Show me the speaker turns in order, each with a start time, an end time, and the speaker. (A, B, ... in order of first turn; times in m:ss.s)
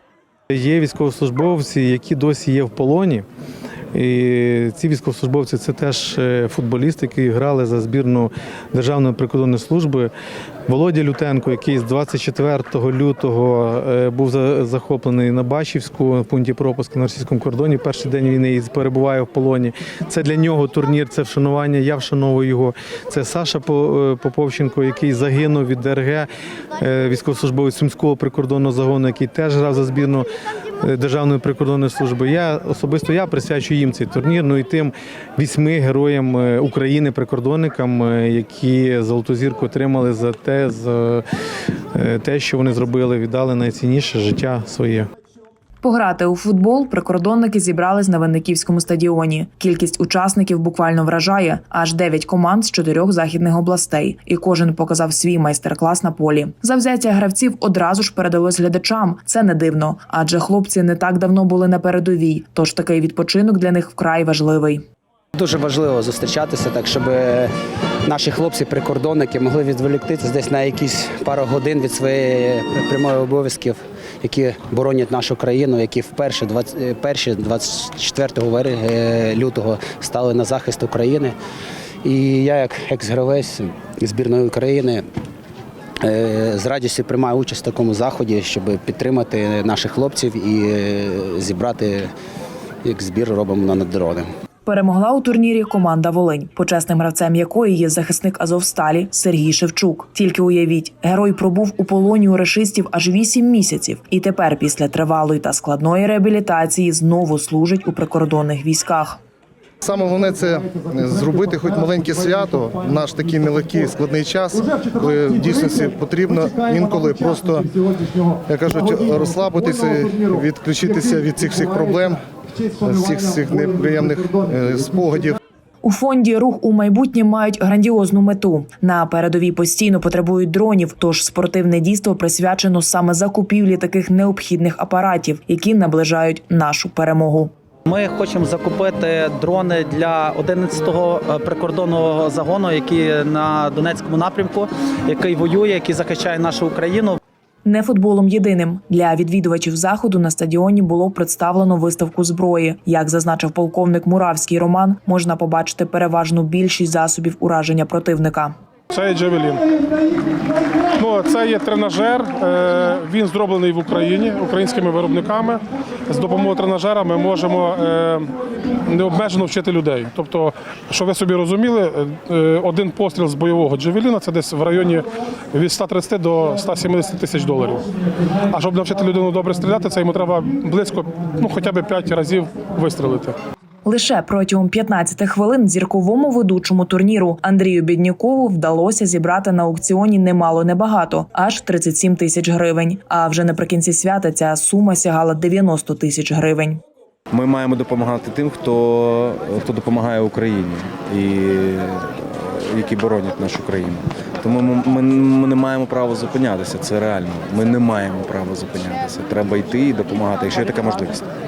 0:00.5-0:03.2 A
0:03.9-0:10.1 A
0:10.7-0:26.3 A
0:26.8-0:30.3 A
0:30.8-0:41.2 A
0:41.9-0:45.1 A
0:45.8-1:04.8 B
1:05.3-1:07.5 C
1:08.0-1:21.4 C
1:22.0-1:25.0 C
1:26.0-1:32.1 C
1:32.8-1:34.3 C
1:34.6-1:49.2 B
1:49.8-1:57.8 D
1:58.5-2:05.4 D
2:05.8-2:17.5 B
2:17.8-2:27.2 E
2:27.6-2:38.5 B
2:38.9-2:39.6 F
2:41.0-2:57.9 F
2:58.5-3:03.4 F
3:03.8-3:16.8 B
3:17.3-3:31.2 G